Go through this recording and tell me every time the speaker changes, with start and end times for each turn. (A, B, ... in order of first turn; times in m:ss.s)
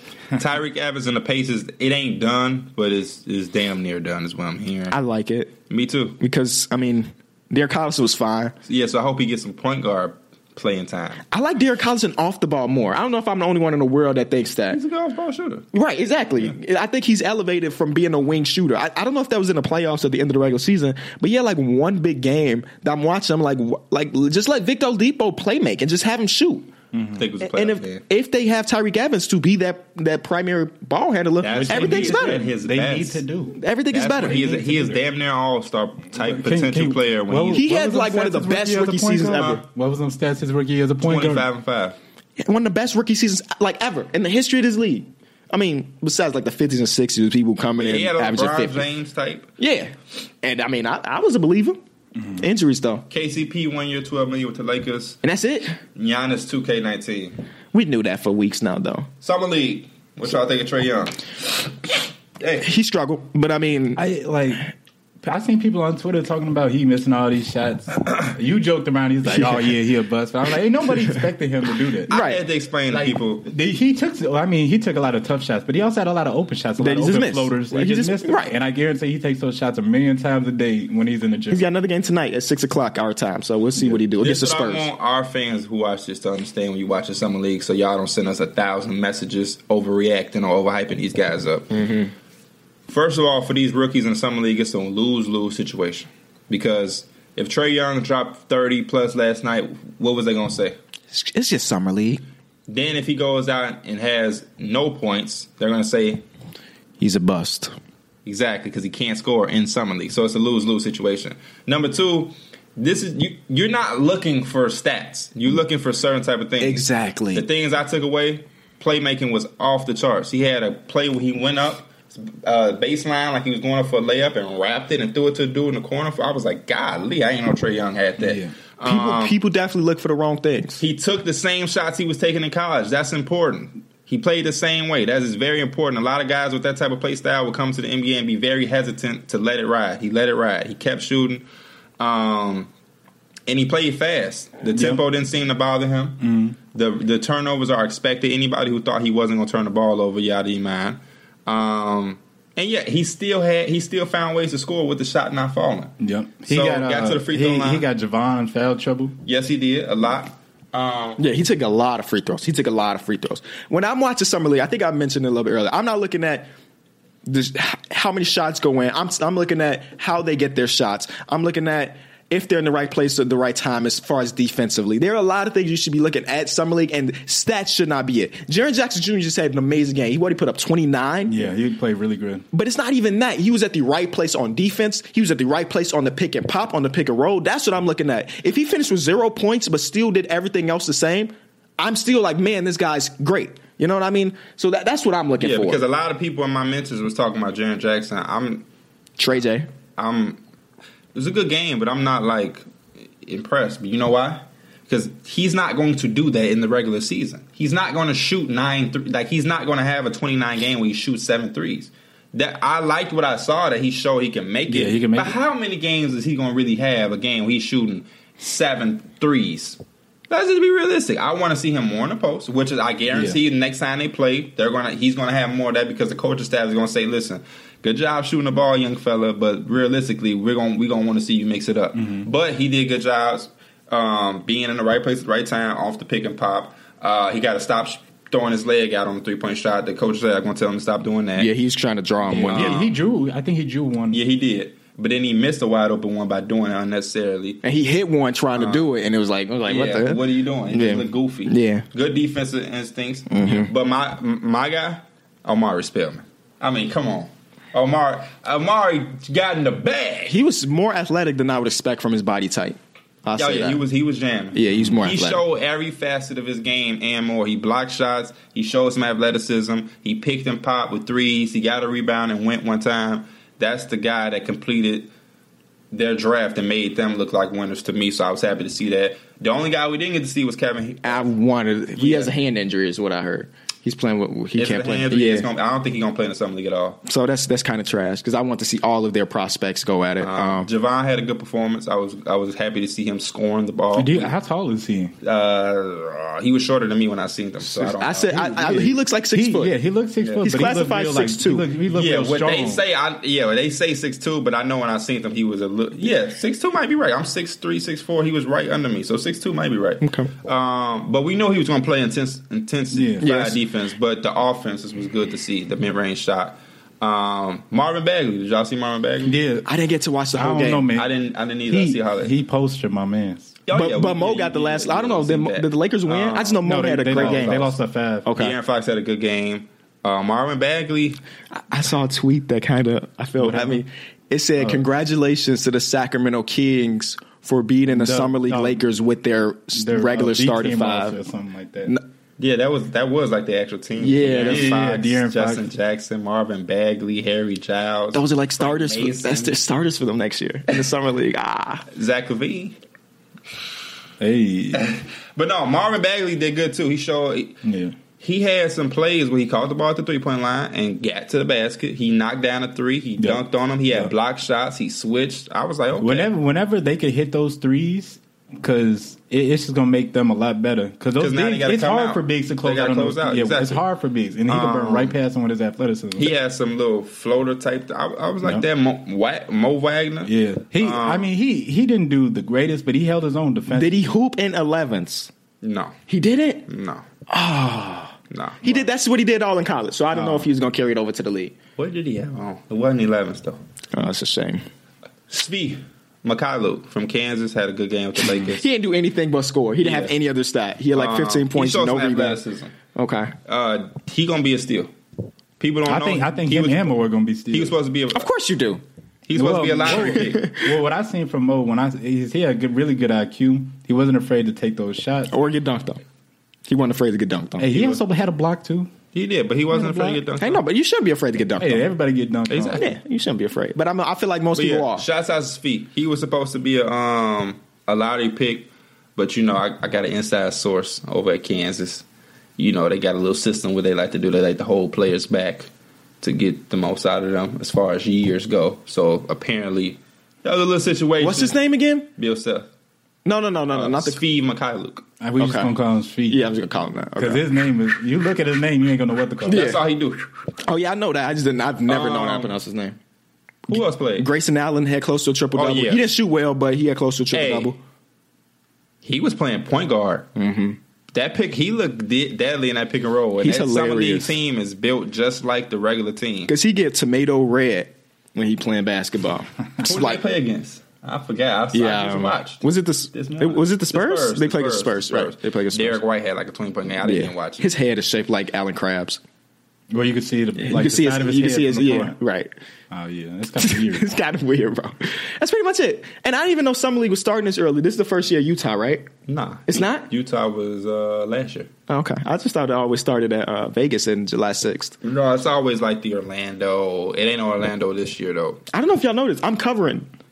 0:00.4-0:05.0 A
0:04.9-0:05.5 B
0:05.7-0:06.2 A
0:06.2-0:08.6 B
0:08.7-0:11.2 A
0:11.3-0:14.8 B
0:14.7-0:15.7 A
0:15.7-0:26.7 B
0:26.9-0:27.2 C
0:27.2-0:28.0 A
0:27.4-0:32.4 B
0:31.4-0:33.2 A
0:31.5-0:33.6 C
0:33.6-0:34.4 B
0:33.9-0:37.6 A
0:34.2-0:35.0 C
0:36.2-0:41.4 C
0:37.5-0:39.6 B
0:39.3-0:39.6 A
0:41.0-0:42.0 A
0:42.4-0:48.8 B
0:47.8-0:49.5 A
0:49.6-0:51.8 B
0:52.4-0:53.1 B
0:53.1-0:55.2 A
0:55.2-0:55.8 B
0:56.0-0:57.4 A
0:57.7-0:59.1 B
0:59.2-1:01.7 A
1:02.6-1:04.0 B
1:04.0-1:04.7 C
1:05.2-1:12.1 C
1:12.1-1:13.5 A
1:12.1-1:12.4 B
1:12.9-1:21.7 C
1:16.8-1:18.5 B
1:21.5-1:24.9 B
1:24.2-1:31.7 A
1:31.7-1:32.1 B
1:32.9-1:40.8 A
1:41.1-1:42.2 B
1:42.7-1:46.2 A
1:47.0-1:47.7 B
1:48.2-2:09.4 A
1:56.6-1:57.4 B
2:08.2-2:08.5 C
2:08.8-2:10.8 B
2:10.8-2:21.4 A
2:22.0-2:22.7 A
2:23.5-2:26.2 A
2:24.7-2:25.0 C
2:26.2-2:26.6 C
2:26.7-2:35.9 A
2:36.0-2:39.2 C
2:36.4-2:37.8 A
2:39.2-2:41.2 A
2:41.2-2:46.5 B
2:47.3-3:01.4 B
3:01.3-3:02.5 C
3:02.5-3:15.8 B
3:15.4-3:18.6 A
3:19.2-3:19.7 B
3:20.0-3:20.4 A
3:21.2-3:22.7 A
3:23.2-4:01.5 A
3:34.7-3:35.4 C
3:43.1-3:43.4 C
3:52.0-3:52.3 C
4:01.4-4:02.8 B
4:02.3-4:04.2 C
4:02.5-4:03.0 A
4:04.1-4:07.6 A
4:07.6-4:11.9 B
4:08.6-4:08.9 A
4:09.6-4:20.4 A
4:13.3-4:13.7 B
4:20.3-4:23.8 B
4:23.4-4:35.1 A
4:24.5-4:25.4 B
4:35.9-4:41.3 A
4:41.0-4:45.5 B
4:42.0-4:42.3 A
4:44.6-4:47.0 A
4:47.1-4:50.7 B
4:50.2-4:54.3 A
4:54.0-4:55.1 C
4:55.2-4:58.9 A
4:57.6-4:59.7 B
4:59.3-5:02.8 C
5:00.2-5:00.5 A
5:00.4-5:01.7 B
5:01.9-5:19.4 A
5:10.0-5:10.3 B
5:12.9-5:13.3 C
5:13.2-5:13.6 B
5:19.2-5:19.7 C
5:19.6-5:20.9 B
5:20.4-5:21.1 C
5:20.9-5:22.3 A
5:21.7-5:23.6 C
5:23.7-5:27.7 A
5:23.7-5:27.7 B
5:26.6-5:28.3 C
5:28.3-5:28.6 B
5:28.4-5:31.2 A
5:31.5-5:41.2 B
5:33.4-5:33.8 C
5:34.6-5:34.8 C
5:37.9-5:38.8 C
5:39.7-5:41.9 C
5:42.4-5:49.6 A
5:44.0-5:44.7 B
5:44.3-5:45.7 C
5:48.1-5:51.9 B
5:51.9-5:52.8 A
5:54.2-5:54.9 C
5:54.7-5:57.6 A
5:57.6-5:58.0 C
5:58.2-6:06.3 A
6:03.2-6:04.1 C
6:06.0-6:16.3 C
6:11.2-6:13.8 A
6:14.5-6:15.2 A
6:16.2-6:21.3 A
6:20.2-6:24.1 C
6:23.7-6:25.3 B
6:25.6-6:26.0 A
6:26.1-6:26.7 B
6:26.7-6:27.0 A
6:27.3-6:31.6 B
6:28.3-6:28.9 A
6:30.1-6:30.5 C
6:31.8-6:33.6 A
6:33.9-6:34.6 B
6:35.3-6:38.6 A
6:38.4-6:42.4 B
6:39.8-6:40.2 A
6:40.9-6:42.7 A
6:42.9-6:43.4 B
6:43.5-6:44.9 A
6:45.6-6:47.0 A
6:45.9-6:47.8 C
6:47.5-6:48.3 A
6:48.1-6:48.8 B
6:49.3-6:50.5 A
6:49.4-6:55.3 C
6:49.9-6:50.6 B
6:55.3-6:56.0 B
6:56.7-6:57.7 B
6:57.6-6:58.9 C
6:57.7-6:58.0 A
6:59.1-7:00.6 A
6:59.7-7:00.2 C
7:00.4-7:01.9 B
7:01.6-7:02.9 C
7:02.5-7:02.9 A
7:02.7-7:05.0 B
7:04.6-7:12.0 A
7:12.6-7:15.7 A
7:16.2-7:21.6 A
7:21.2-7:22.1 B
7:22.2-7:22.7 A
7:23.2-7:24.2 B
7:23.7-7:25.0 A
7:25.2-7:26.5 C
7:25.4-7:25.7 B
7:26.3-7:27.4 B
7:27.2-7:29.8 C
7:29.5-7:29.8 B
7:29.5-7:30.3 A
7:30.6-7:33.0 B
7:31.9-7:32.6 A
7:33.7-7:37.8 B
7:33.7-7:34.3 A
7:35.6-7:36.1 A
7:37.3-7:37.8 A
7:39.0-7:40.3 A
7:40.4-7:40.8 B
7:41.1-7:46.5 A
7:43.4-7:44.4 B
7:46.5-7:50.2 B
7:49.8-7:57.7 A
7:51.7-7:56.0 B
7:57.0-7:59.2 B
7:59.9-8:02.2 C
8:00.6-8:02.5 B
8:02.9-8:04.1 C
8:03.6-8:09.1 B
8:09.3-8:11.7 A
8:09.7-8:10.1 B
8:11.9-8:15.0 B
8:15.0-8:18.6 A
8:18.7-8:20.1 B